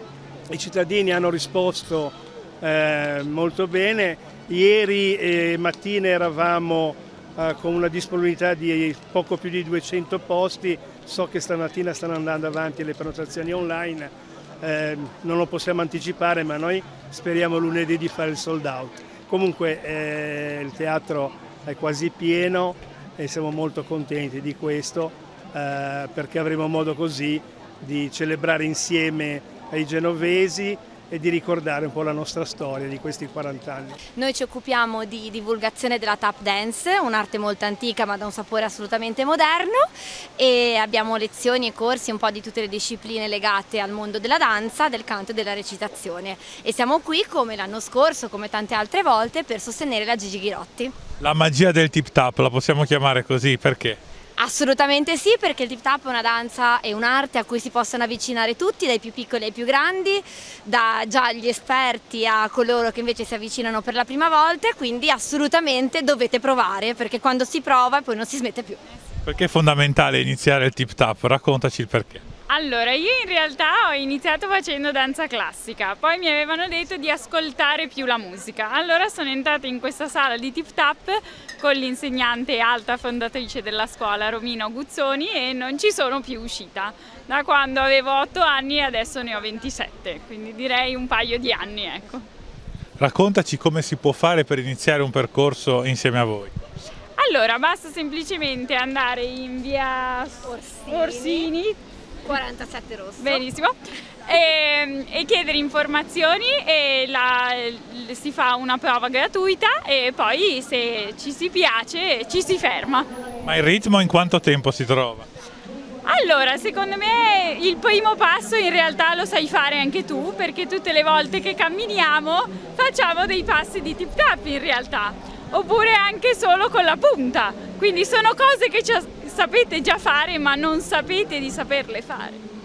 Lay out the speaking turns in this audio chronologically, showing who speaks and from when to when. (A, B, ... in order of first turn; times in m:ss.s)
0:00.5-0:34.0 A
0:34.2-0:39.8 B
0:40.4-0:50.9 B
0:51.2-0:54.0 C
0:54.4-1:08.8 B
1:09.2-1:12.2 C
1:12.5-1:32.2 D
1:33.0-1:36.5 C
1:37.2-1:41.8 D
1:40.5-1:41.5 B
1:42.2-1:43.4 B
1:43.2-1:43.8 D
1:44.3-1:53.1 D
1:53.4-1:55.3 C
1:56.0-2:12.4 D